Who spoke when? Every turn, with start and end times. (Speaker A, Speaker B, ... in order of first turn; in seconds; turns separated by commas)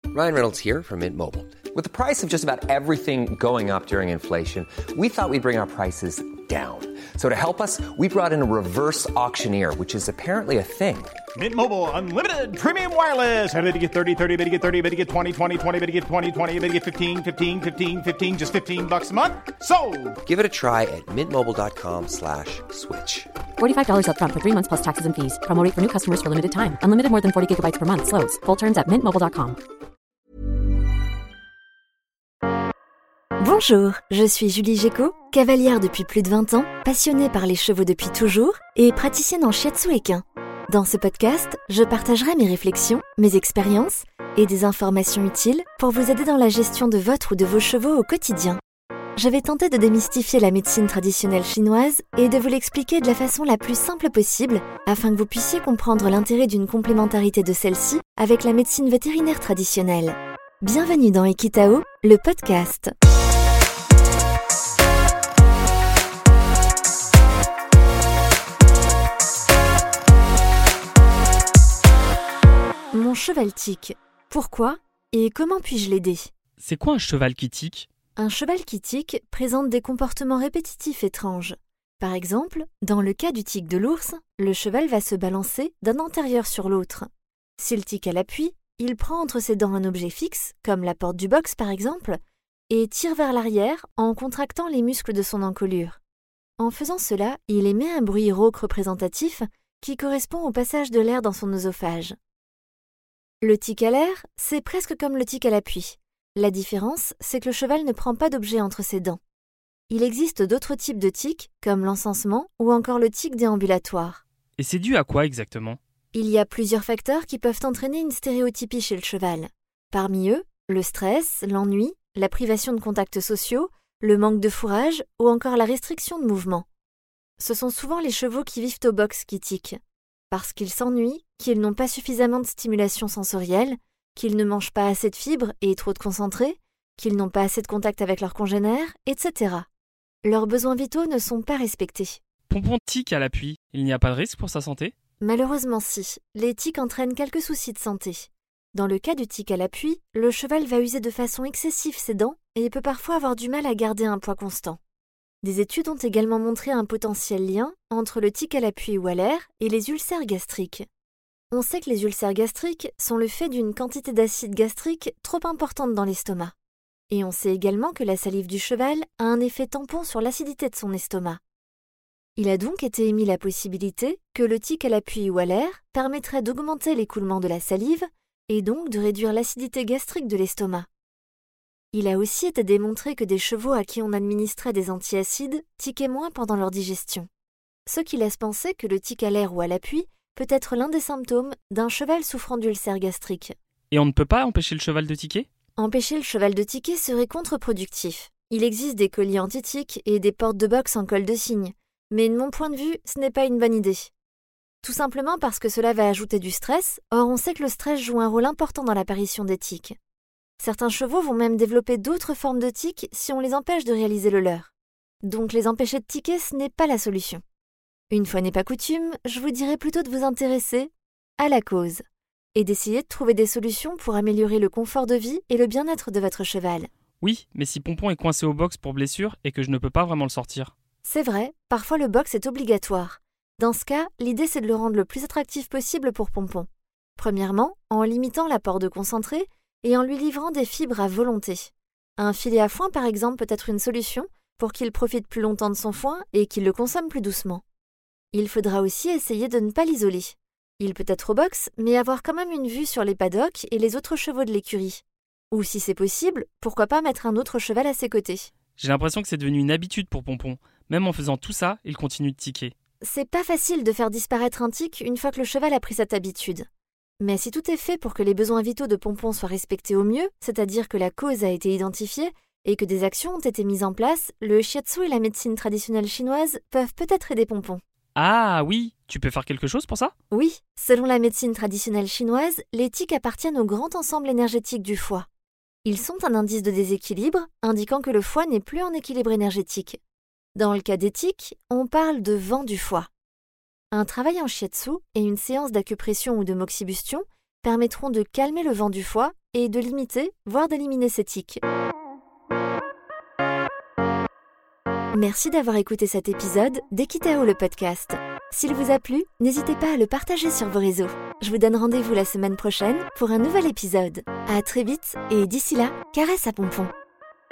Speaker A: 0.1-11.1, Speaker B: 11.4-20.1, Speaker A: 20.2-23.3, Speaker C: 23.6-29.6, Speaker D: 33.4-48.6, Speaker D: 49.2-62.9, Speaker D: 72.9-76.3, Speaker E: 76.6-77.9, Speaker D: 78.2-96.0, Speaker D: 96.6-102.1, Speaker D: 103.4-109.2, Speaker D: 109.9-114.2, Speaker E: 114.6-115.8, Speaker D: 116.1-126.7, Speaker D: 127.4-129.8, Speaker D: 130.3-139.7, Speaker D: 140.2-142.2, Speaker E: 142.5-144.9, Speaker D: 145.2-154.8, Speaker D: 155.4-160.8, Speaker D: 161.5-166.5, Speaker D: 167.1-171.4, Speaker D: 172.3-180.9, Speaker D: 181.9-187.3, Speaker D: 187.8-193.5, Speaker E: 193.9-195.5, Speaker D: 195.8-204.1, Speaker D: 204.8-209.9, Speaker D: 210.6-214.7, Speaker D: 215.2-217.4, Speaker D: 218.1-222.0, Speaker D: 222.5-226.9, Speaker E: 227.2-230.7, Speaker D: 231.0-247.6, Speaker D: 248.3-258.5, Speaker E: 258.8-262.7, Speaker D: 263.0-266.6, Speaker D: 267.2-277.8, Speaker E: 278.1-280.1, Speaker D: 280.3-285.3, Speaker D: 285.8-290.0, Speaker D: 290.6-293.1, Speaker D: 293.9-301.6, Speaker D: 305.1-316.9